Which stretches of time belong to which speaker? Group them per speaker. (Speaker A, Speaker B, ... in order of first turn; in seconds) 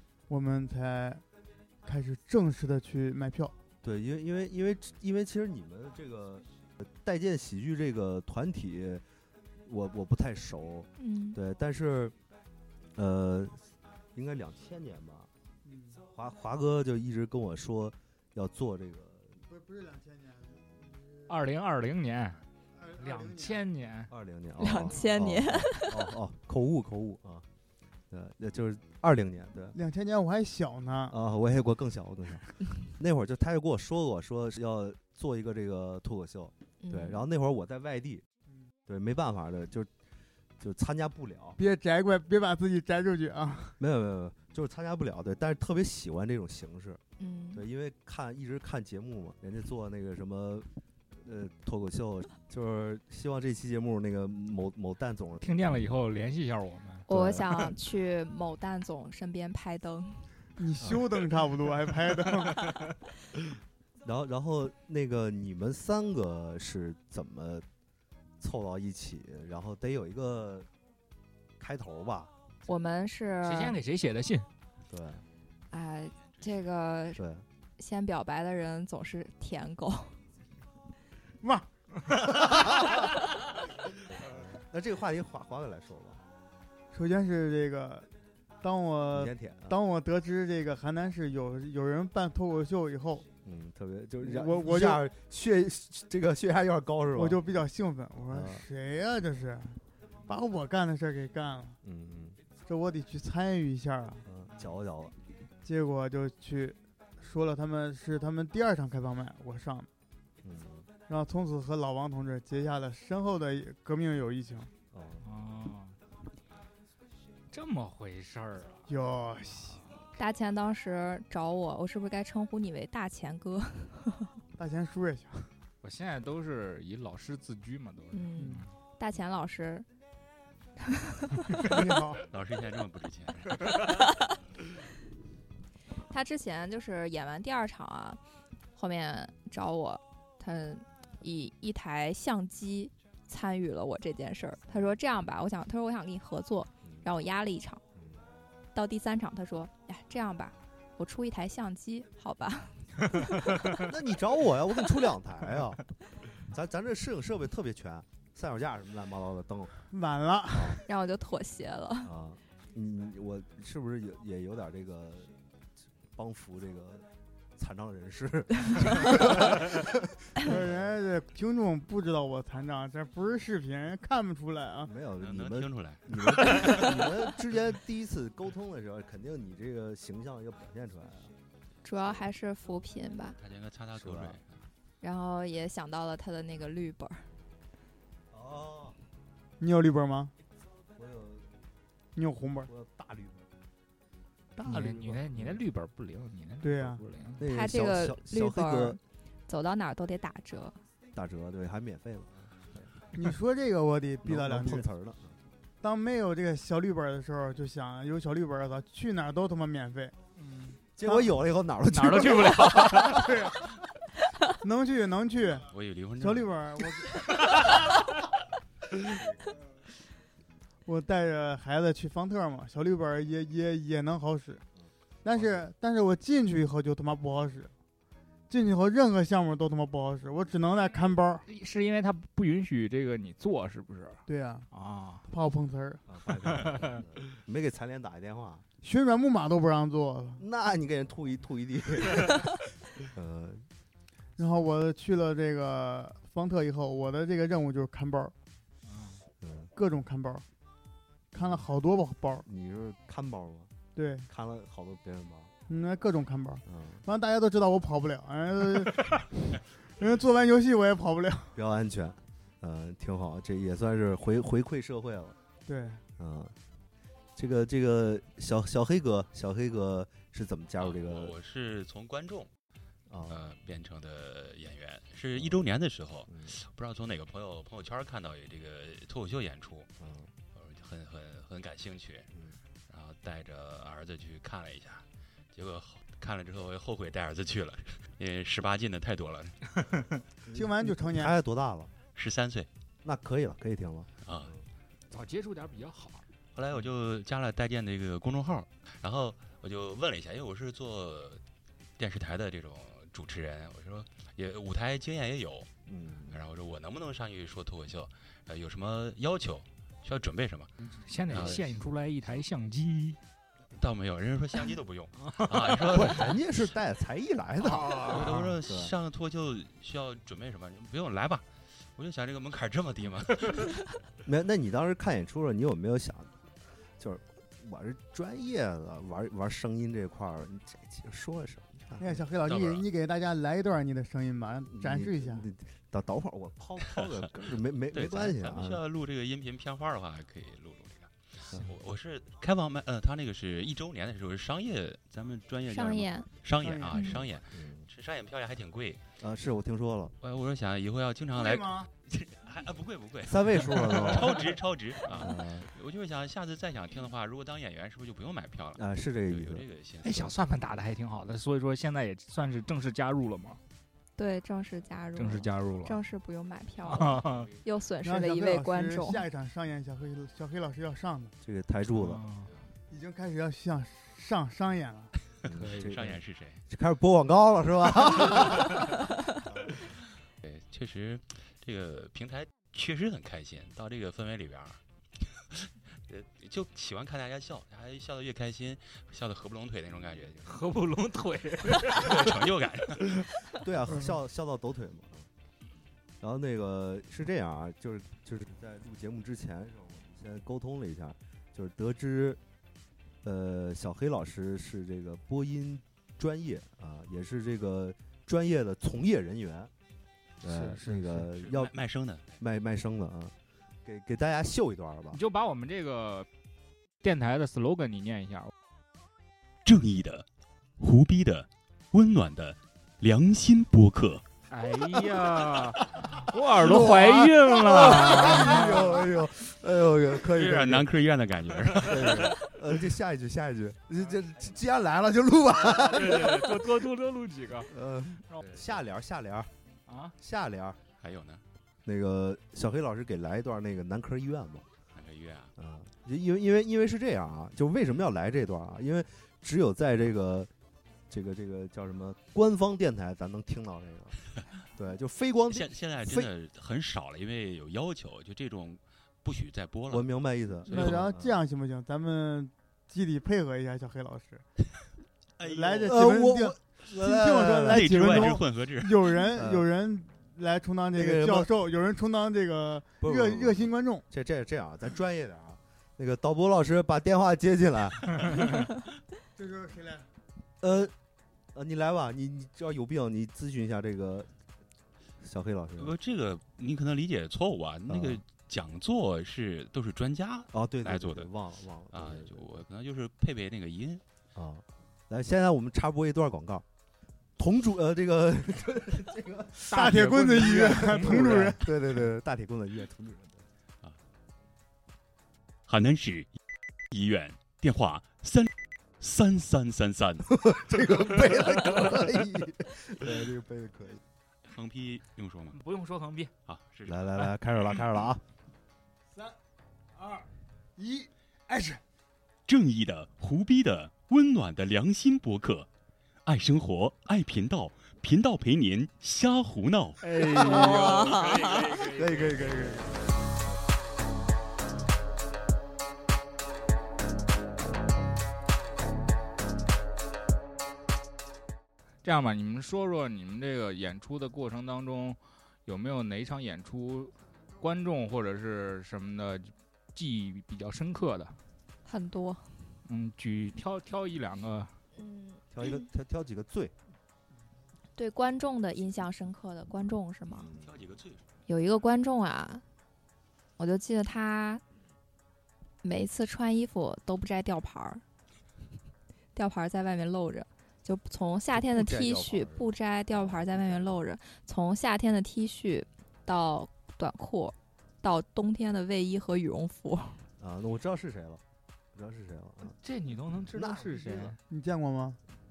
Speaker A: 0.3-1.2, 1.8-3.5, 15.6-16.0, 19.5-21.3, 22.8-23.6, 29.7-31.1, 41.6-43.8, 60.6-62.7, 81.4-82.5, 86.9-88.1, 88.6-93.2, 94.2-95.0, 97.1-101.8, 102.7-104.2, 105.6-109.9, 111.1-114.7, 118.9-119.8, 124.6-125.5, 128.4-128.7, 131.6-132.2, 159.9-160.8, 170.4-174.9, 189.6-190.3, 192.1-192.7, 196.6-197.0, 203.2-204.9, 205.8-210.2, 213.2-213.5, 214.6-217.2, 220.8-224.6, 225.2-227.7, 228.5-231.4, 234.2-234.7, 235.3-236.0, 238.8-240.4, 244.4-248.3, 249.7-250.4, 251.3-252.4, 253.9-254.3, 255.7-261.5, 265.7-266.0, 290.5-291.3, 332.0-335.4, 346.6-347.2, 351.4-351.9, 368.0-371.3, 372.9-375.1, 460.7-464.4, 465.4-474.0, 479.4-480.1, 499.7-501.6, 520.0-521.8, 530.4-531.1, 532.0-532.8, 584.5-585.2
Speaker B: 3.8-9.0, 9.6-12.1, 12.9-15.3, 16.1-19.4, 24.1-27.5, 28.1-29.8, 31.1-38.2, 38.9-39.9, 40.6-41.6, 43.8-47.0, 47.5-55.6, 57.1-57.5, 64.0-67.7, 68.4-70.7, 71.6-72.3, 74.9-75.2, 77.1-77.5, 82.5-82.8, 84.1-86.2, 89.1-89.8, 93.4-97.4, 98.3-98.7, 101.8-102.4, 104.2-105.2, 110.4-110.9, 114.9-115.2, 153.8-155.8, 156.4-159.8, 160.5-160.8, 162.0-165.3, 166.1-171.0, 174.8-181.3, 183.9-184.4, 188.3-189.0, 190.9-191.5, 192.6-193.4, 194.6-195.6, 197.4-199.0, 201.1-202.9, 204.2-205.4, 210.9-213.3, 219.2-219.6, 224.8-225.7, 236.1-238.6, 240.4-243.7, 249.4-249.7, 252.4-253.7, 254.3-255.5, 256.6-257.0, 261.6-265.4, 266.2-266.6, 267.4-271.3, 273.1-273.5, 275.3-275.6, 276.3-276.5, 280.0-280.3, 282.3-282.6, 290.5-291.9, 293.0-294.6, 305.9-306.4, 311.3-311.6, 315.9-318.9, 324.2-326.4, 327.0-332.2, 334.7-338.8, 347.5-347.9, 349.2-350.1, 353.2-354.5, 355.1-355.7, 358.7-359.6, 371.4-372.2, 375.5-378.8, 393.2-395.3, 396.2-402.4, 403.2-409.7, 410.4-411.7, 412.4-415.2, 426.6-430.9, 431.8-436.8, 437.7-439.5, 440.2-440.8, 441.8-444.7, 445.6-450.5, 451.1-454.2, 454.7-456.3, 459.9-461.4, 465.8-468.4, 469.3-469.6, 470.9-471.5, 473.0-478.4, 480.6-480.9, 481.5-484.3, 485.2-485.9, 487.9-488.2, 490.5-492.5, 494.3-496.6, 497.4-503.4, 510.3-514.0, 516.9-518.2, 555.5-556.7, 560.3-560.7, 571.5-574.0, 580.4-582.8, 583.5-584.3
Speaker C: 11.0-11.4, 24.6-26.0, 36.8-37.2, 47.2-47.6, 57.1-60.3, 72.7-73.8, 75.7-77.2, 77.8-80.2, 120.2-124.3, 128.1-129.8, 131.2-131.6, 136.1-138.2, 138.7-147.8, 148.7-153.6, 160.9-162.1, 181.8-183.4, 185.0-187.3, 197.4-200.8, 345.7-346.3, 346.9-347.2, 364.2-369.2, 530.4-531.7, 551.8-552.5, 555.0-555.9, 558.0-560.5, 561.5-562.6, 563.6-564.6, 565.8-568.0, 569.3-580.2
Speaker D: 21.3-22.4, 23.0-24.1, 55.4-57.1, 73.4-74.5, 115.2-116.0, 117.5-118.9, 125.8-128.7, 194.6-197.4, 210.4-210.8, 211.9-213.3, 231.4-235.3, 236.6-237.0, 248.8-249.2, 295.1-296.2, 310.8-313.2, 315.2-316.2, 317.6-318.5, 360.0-363.6, 365.1-366.0, 366.8-367.5, 371.9-372.5, 375.6-375.9, 390.4-392.2, 410.4-411.3, 415.1-416.3, 417.0-418.5, 424.5-429.0, 435.6-437.7, 439.9-440.1, 499.7-501.5, 515.5-516.3, 530.0-532.7, 542.0-551.4, 552.8-554.8, 582.7-584.4
Speaker E: 132.3-133.9, 175.2-176.8, 183.4-184.6, 215.7-216.5, 270.8-272.5, 273.3-279.9, 280.5-282.3, 282.9-290.0, 292.1-292.7, 294.2-294.5, 296.5-301.4, 302.0-305.7, 306.3-310.7, 311.3-311.6, 313.7-316.3, 318.1-323.8, 332.4-332.9, 336.9-337.3, 337.9-349.0, 350.2-360.3, 375.6-376.6, 380.4-390.5, 391.8-393.2, 411.4-412.3, 419.6-420.2, 420.8-424.2, 430.3-432.3, 441.0-441.4, 444.9-445.5, 455.5-460.1, 460.6-461.0, 465.4-466.1, 467.6-469.2, 485.8-491.3, 491.9-494.0, 505.7-506.3, 506.9-510.3, 514.5-515.6, 516.5-517.0, 522.5-525.7, 526.2-530.0, 560.6-561.2